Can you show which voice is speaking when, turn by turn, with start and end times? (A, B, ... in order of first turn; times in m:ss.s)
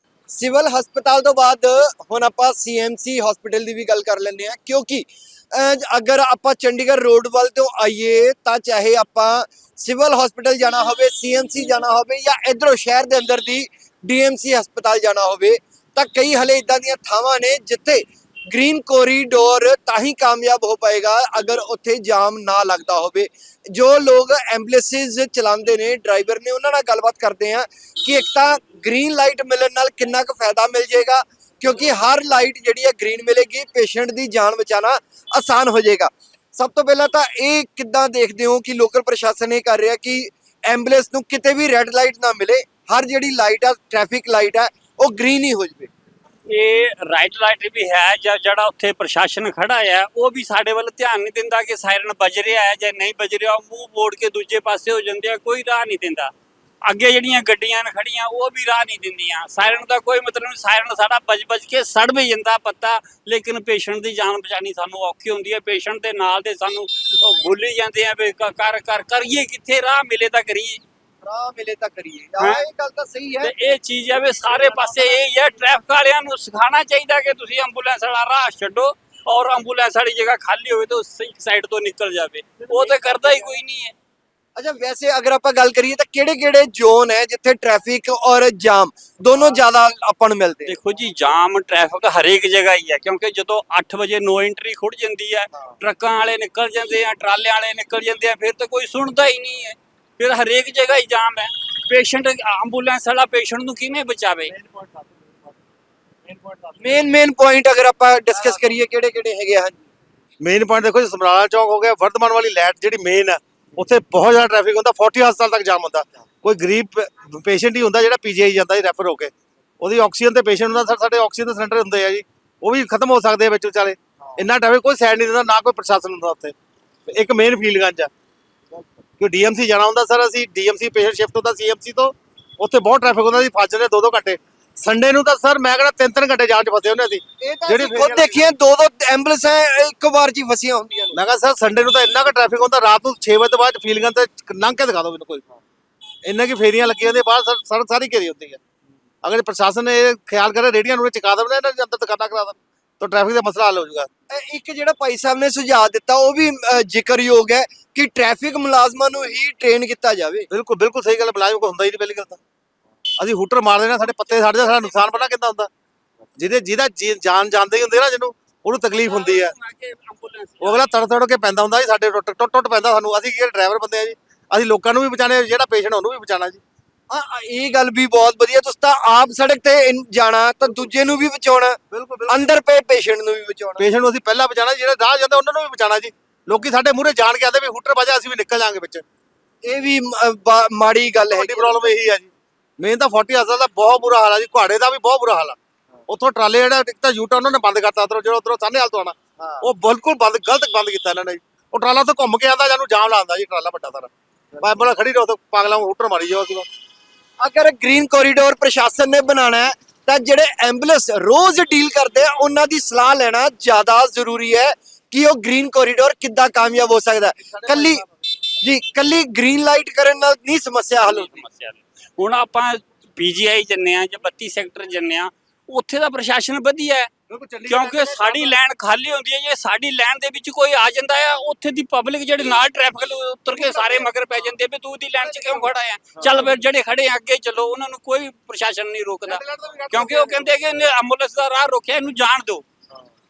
0:00.3-0:45.9 A
0:46.5-0:56.3 B
0:56.8-1:10.8 B
1:11.2-1:13.5 A
1:12.4-1:12.6 B
1:13.4-1:23.9 B
1:24.6-1:30.8 A
1:30.7-1:44.5 B
1:44.6-1:45.1 C
1:46.3-1:46.7 C
1:46.8-1:49.8 A
1:48.4-1:48.7 C
1:50.4-2:06.6 C
2:07.1-2:08.1 C
2:09.2-2:18.5 C
2:17.4-2:21.2 A
2:21.1-2:25.4 C
2:26.2-2:28.6 C
2:29.2-2:34.1 C
2:34.3-2:40.5 A
2:40.5-2:42.4 C
2:43.2-2:45.7 C
2:46.4-2:49.6 C
2:49.0-2:50.8 B
2:50.6-2:56.6 C
2:57.1-3:03.9 A
3:01.9-3:02.4 C
3:03.8-3:09.0 C
3:09.6-3:11.9 A
3:11.3-3:26.7 C
3:19.4-3:19.7 A
3:27.4-3:38.0 A
3:37.5-3:38.1 C
3:38.6-3:41.4 A
3:41.0-3:47.1 B
3:47.3-3:48.6 C
3:47.7-4:02.7 B
3:53.5-3:54.1 C
3:55.2-3:55.7 C
3:59.3-4:00.6 C